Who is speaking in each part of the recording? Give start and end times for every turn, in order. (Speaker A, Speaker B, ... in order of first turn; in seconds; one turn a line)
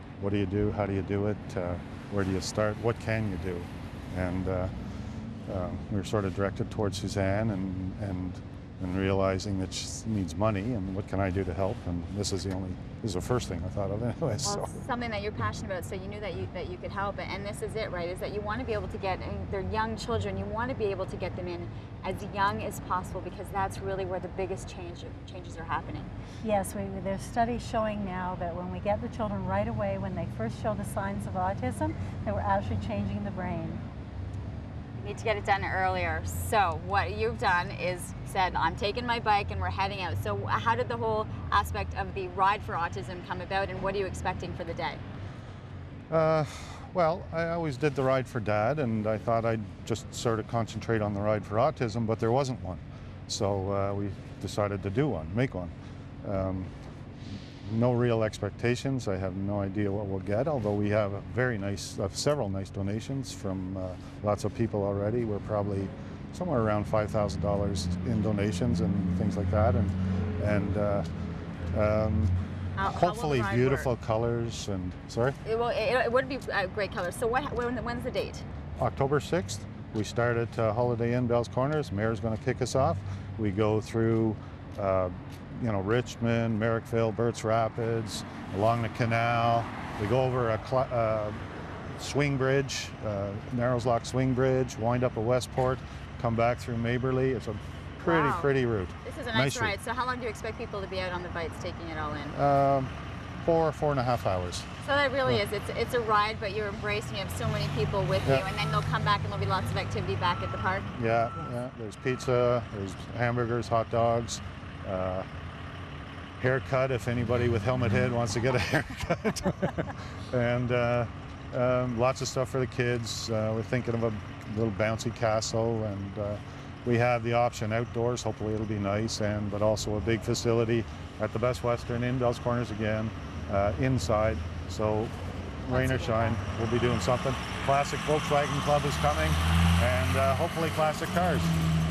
Speaker A: 0.2-4.7
Speaker A: 5.5-14.7
Speaker B: 14.4-26.1
Speaker C: 26.4-33.8
Speaker B: 35.0-45.0
Speaker A: 46.1-55.7
Speaker A: 56.2-56.7
Speaker A: 57.6-71.1
Speaker A: 71.7-75.4
Speaker B: 72.8-73.9
Speaker B: 75.4-78.5
Speaker A: 78.8-91.4
Speaker A: 92.0-99.8
Speaker B: 98.0-102.4
Speaker A: 102.3-102.9
Speaker A: 103.4-104.7
Speaker B: 104.8-110.9
Speaker A: 110.9-115.3
Speaker A: 116.4-141.6
Speaker B: 135.7-136.4